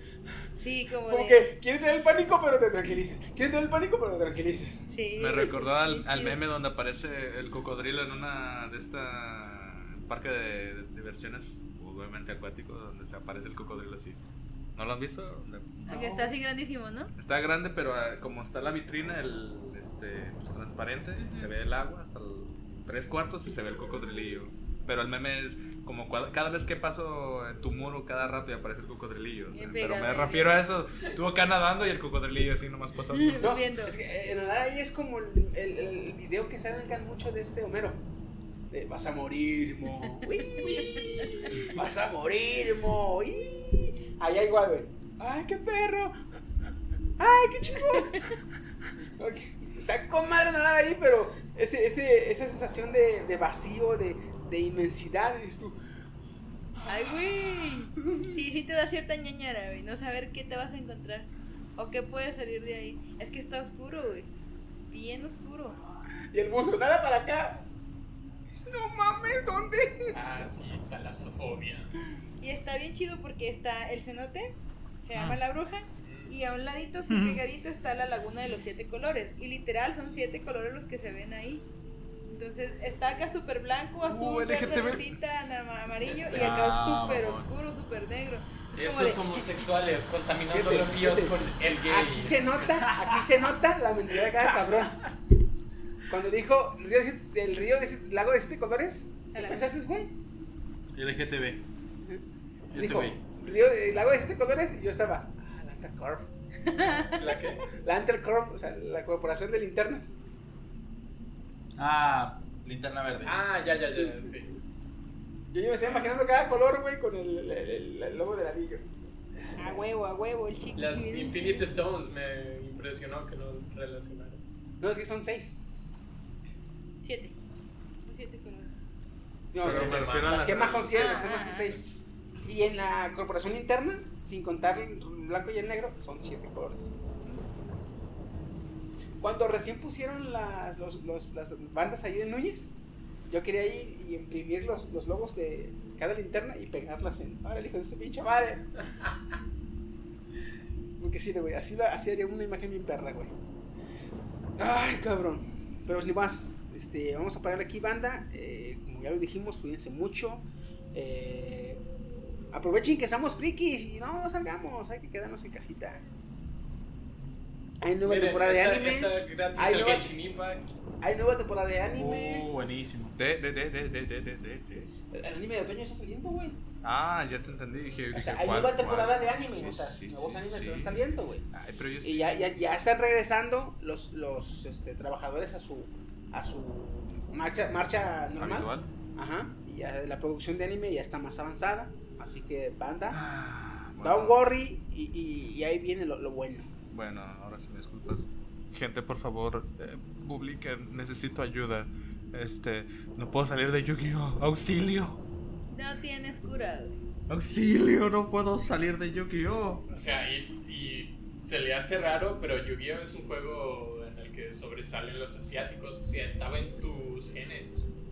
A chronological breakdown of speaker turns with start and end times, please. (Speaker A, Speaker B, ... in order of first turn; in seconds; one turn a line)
Speaker A: 0.6-1.5
Speaker B: 1.1-4.8
Speaker A: 4.9-6.4
Speaker C: 5.2-14.2
Speaker C: 14.8-16.1
Speaker A: 15.9-17.1
Speaker B: 15.9-16.3
Speaker C: 17.2-33.6
Speaker A: 21.2-21.5
Speaker A: 29.5-30.7
Speaker A: 33.1-34.0
Speaker B: 33.4-38.0
Speaker B: 38.7-46.2
Speaker A: 40.4-41.4
Speaker B: 47.2-48.4
Speaker B: 49.2-55.8
Speaker B: 56.8-58.4
Speaker A: 56.9-64.3
Speaker A: 64.9-65.8
Speaker B: 66.3-67.7
Speaker B: 68.5-70.2
Speaker D: 70.1-71.9
Speaker A: 72.4-81.7
Speaker E: 75.1-75.4
Speaker D: 76.0-76.3
Speaker E: 77.1-77.4
Speaker A: 82.3-89.5
Speaker E: 84.1-85.0
Speaker C: 84.2-85.0
Speaker D: 86.1-86.6
Speaker E: 86.3-87.5
Speaker D: 88.7-93.1
Speaker B: 90.5-95.1
Speaker B: 96.1-100.2
Speaker A: 99.3-99.8
Speaker E: 100.9-101.7
Speaker B: 102.0-106.3
Speaker E: 102.7-103.2
Speaker A: 106.7-107.2
Speaker D: 107.2-107.7
Speaker B: 107.7-110.1
Speaker E: 111.8-113.4
Speaker D: 113.2-114.5
Speaker B: 115.5-118.9
Speaker B: 119.4-119.8
Speaker A: 119.6-121.7
Speaker D: 120.8-124.4
Speaker B: 124.8-125.6
Speaker A: 127.0-127.4
Speaker A: 128.1-128.7
Speaker B: 129.5-136.9
Speaker D: 129.6-130.5
Speaker C: 129.6-131.2
Speaker E: 129.6-130.9
Speaker A: 130.9-131.7
Speaker B: 139.2-142.7
Speaker B: 143.3-148.8
Speaker B: 151.0-153.3
Speaker B: 154.6-161.8
Speaker B: 162.5-166.0
Speaker B: 167.8-170.1
Speaker D: 168.0-170.6
Speaker B: 171.0-172.5
Speaker E: 171.9-173.2
Speaker C: 173.2-174.9
Speaker B: 175.1-176.6
Speaker C: 176.8-181.0
Speaker B: 178.1-181.4
Speaker C: 181.5-182.6
Speaker B: 182.0-193.2
Speaker C: 188.4-188.9
Speaker C: 193.1-194.4
Speaker B: 194.0-196.7
Speaker C: 196.9-205.2
Speaker A: 205.7-207.0
Speaker C: 207.3-209.9
Speaker E: 207.3-208.2
Speaker D: 209.9-217.9